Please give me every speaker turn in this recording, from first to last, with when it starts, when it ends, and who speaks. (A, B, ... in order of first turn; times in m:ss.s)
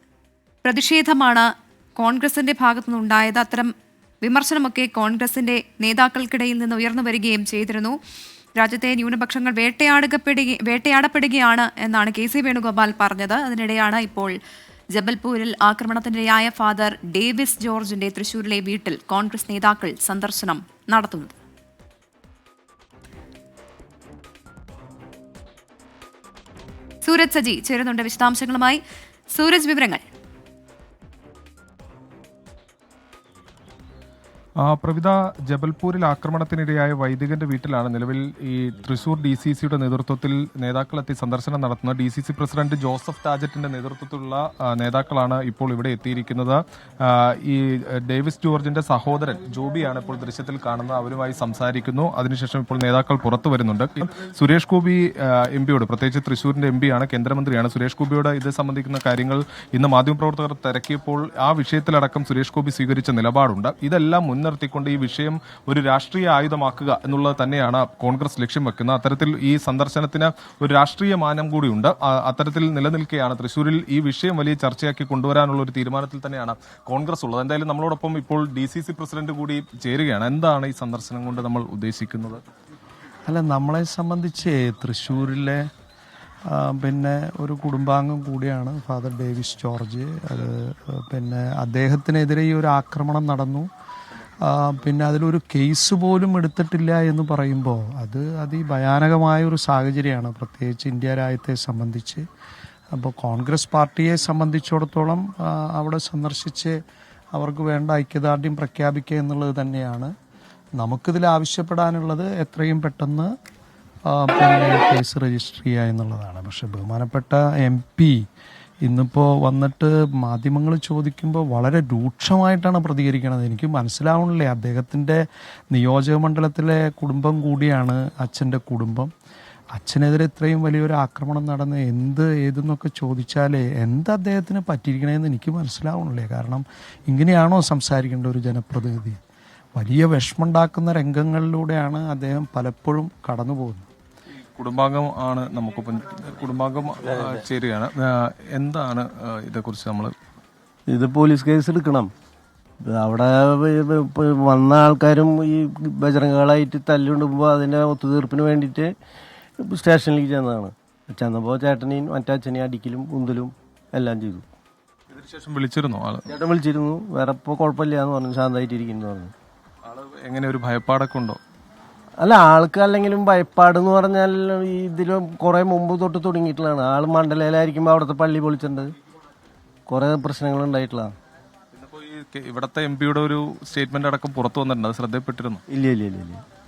0:00.6-0:03.7 A
0:04.2-0:08.0 A
0:08.6-0:14.3 A
0:14.9-0:21.3 A
0:27.0-0:28.8 A
0:29.3-0:30.0 A
0:34.6-1:22.4 B
1:23.2-1:25.7 C
1:26.5-1:33.7 C
1:34.4-1:42.2 C
1:42.9-1:46.7 C
1:47.3-1:50.1 C
1:50.8-1:53.3 C
1:54.1-1:58.2 C
1:58.8-2:09.1 C
2:09.7-2:19.2 C
2:19.7-2:23.9 C
2:24.5-2:30.1 B
2:30.9-2:32.1 D
2:32.9-2:38.9 D
2:39.6-2:44.5 D
2:45.1-2:46.3 B
2:46.3-2:49.3 D
2:49.8-2:51.4 B
2:52.2-2:58.9 D
2:59.9-3:01.1 D
3:01.7-3:05.6 B
3:05.7-3:06.4 D